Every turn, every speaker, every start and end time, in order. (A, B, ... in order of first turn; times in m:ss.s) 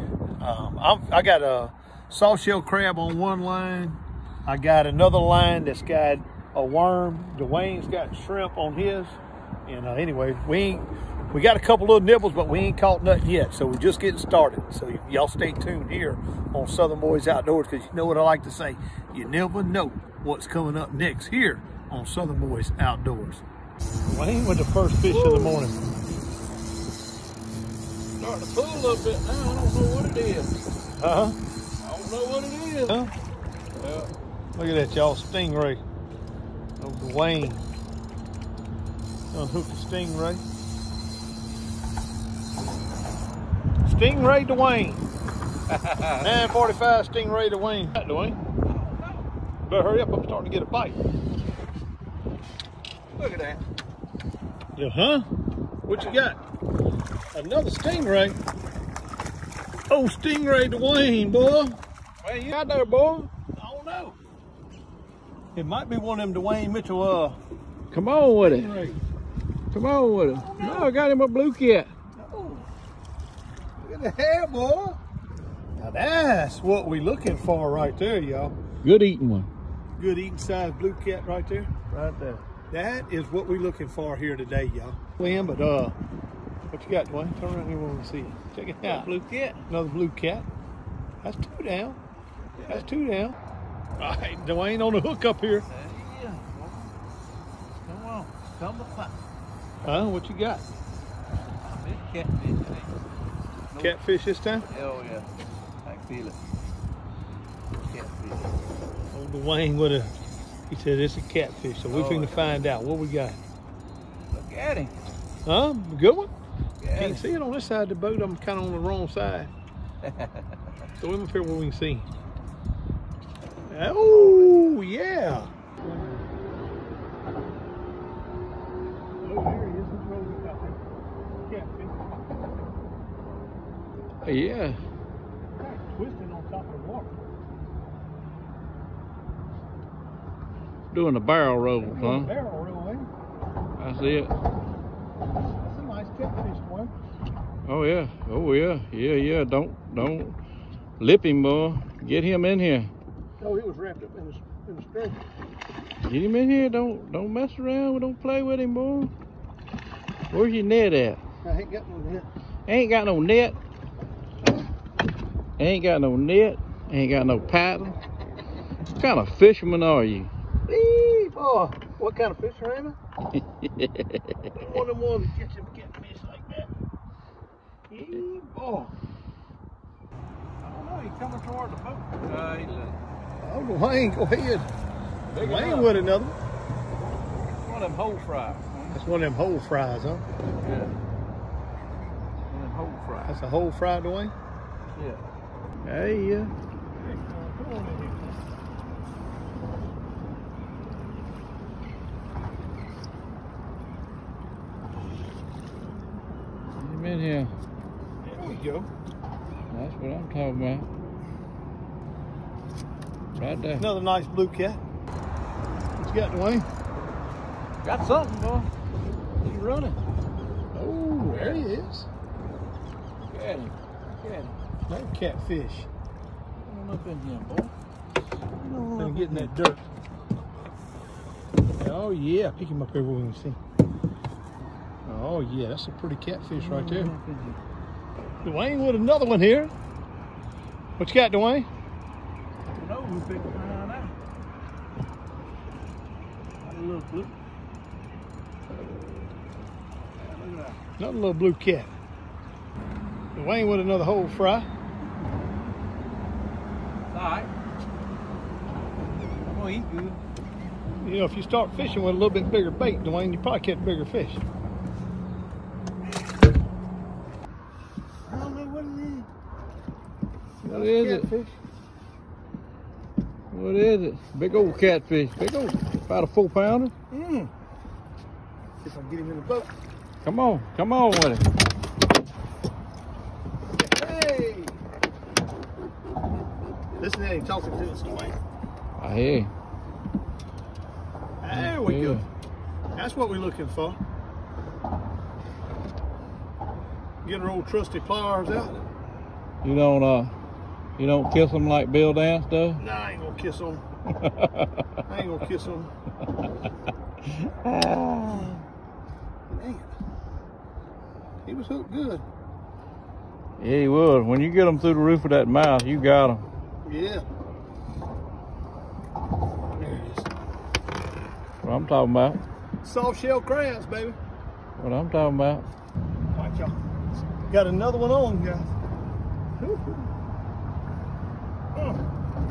0:00.4-0:23.4 A
0:24.1-0:25.8 A
0:25.1-0:25.6 B
0:28.2-0:30.5 B
0:31.0-0:31.4 A
0:31.8-0:33.1 B
0:32.9-0:33.1 A
0:33.8-0:34.1 B
0:34.5-0:35.8 A
0:36.8-0:37.6 A
0:39.3-0:40.4 A
0:43.8-0:45.0 A
0:45.7-0:46.4 B
0:46.1-0:48.4 A
0:48.6-0:49.2 B
0:49.7-0:51.0 A
0:53.2-0:53.6 B
0:54.8-0:55.2 A
0:55.9-0:56.4 A
0:57.3-0:58.4 A
0:59.9-1:01.8 A
1:02.2-1:03.3 B
1:03.5-1:04.2 A
1:05.5-1:07.4 A
1:07.9-1:08.8 B
1:08.4-1:09.0 A
1:09.7-1:11.9 B
1:10.3-1:10.9 A
1:12.2-1:12.6 A
1:13.8-1:15.0 A
1:15.8-1:18.5 A
1:18.8-1:19.5 B
1:20.0-1:21.7 A
1:21.9-1:22.4 B
1:22.7-1:25.9 A
1:26.7-1:29.1 A
1:28.8-1:29.6 B
1:29.7-1:30.4 A
1:31.2-1:32.0 A
1:32.6-1:32.9 B
1:32.6-1:33.4 A
1:34.0-1:35.6 A
1:35.7-1:36.9 B
1:37.8-1:39.1 B
1:39.8-1:40.6 A
1:41.6-1:43.0 B
1:43.7-1:44.0 B
1:43.8-1:44.6 A
1:44.7-1:45.3 B
1:45.8-1:46.4 B
1:47.8-1:48.6 B
1:49.1-1:50.1 A
1:50.7-1:53.4 A
1:51.9-1:52.6 B
1:54.3-1:54.9 B
1:55.4-1:56.3 A
1:56.8-1:57.2 B
1:57.0-1:59.5 A
2:00.0-2:00.4 B
2:01.0-2:02.1 A
2:03.7-2:06.2 A
2:04.0-2:04.7 B
2:09.2-2:10.8 A
2:11.4-2:12.0 A
2:14.2-2:14.8 B
2:15.6-2:17.1 A
2:20.9-2:22.3 B
2:21.8-2:23.1 A
2:23.8-2:24.3 B
2:25.6-2:26.9 A
2:27.6-2:30.4 B
2:31.0-2:32.9 B
2:33.4-2:35.2 A
2:36.0-2:39.1 B
2:40.3-2:41.2 B
2:41.4-2:42.3 A
2:42.7-2:43.6 B
2:45.6-2:48.0 B
2:49.0-2:50.3 B
2:50.7-2:53.0 A
2:53.6-2:54.5 B
2:54.5-2:56.7 A
2:57.9-2:58.9 A
3:00.6-3:03.0 B
3:03.4-3:04.7 A
3:05.3-3:06.0 B
3:05.4-3:06.4 A
3:07.6-3:09.0 B
3:08.9-3:10.2 A
3:10.6-3:10.9 B
3:12.5-3:13.3 B
3:13.2-3:14.3 A
3:14.9-3:15.2 B
3:15.8-3:16.5 B
3:17.0-3:18.3 A
3:26.8-3:27.5 B
3:28.2-3:28.9 A
3:29.7-3:30.9 B
3:33.3-3:33.8 B
3:33.8-3:34.8 A
3:36.0-3:36.7 A
3:37.8-3:38.7 B
3:39.4-3:40.0 B
3:40.7-3:42.1 A
3:41.2-3:41.6 B
3:43.3-3:44.5 B
3:44.9-3:45.9 A
3:46.6-3:47.7 B
3:48.6-3:49.5 B
3:49.0-3:49.8 A
3:51.8-3:53.6 A
3:55.0-3:57.1 A
3:56.4-3:57.6 B
3:58.4-3:59.7 A
4:01.0-4:01.7 A
4:02.7-4:04.1 B
4:06.6-4:07.3 B
4:10.2-4:10.8 B
4:11.0-4:11.9 A
4:13.3-4:14.7 A
4:17.1-4:17.5 B
4:19.4-4:20.2 B
4:21.0-4:24.4 A
4:28.3-4:29.3 B
4:30.6-4:31.3 B
4:30.6-4:31.6 A
4:33.5-4:37.5 B
4:38.8-4:39.7 A
4:40.2-4:41.4 B
4:43.8-4:44.7 A
4:47.0-4:48.4 A
4:49.0-4:49.5 B
4:51.4-4:52.2 A
4:51.5-4:52.2 B
4:52.9-4:54.0 A
4:57.2-4:58.8 A
4:59.6-5:00.3 B
5:01.0-5:02.8 B
5:02.8-5:03.8 A
5:04.1-5:04.9 B
5:05.0-5:05.9 A
5:07.3-5:08.6 B
5:09.5-5:09.9 A
5:11.4-5:12.2 A
5:13.6-5:16.4 B
5:16.8-5:17.2 A
5:19.7-5:20.3 A
5:21.6-5:22.4 B
5:22.8-5:24.2 A
5:24.8-5:25.7 B
5:26.3-5:26.8 A
5:27.5-5:28.7 A
5:29.6-5:30.1 A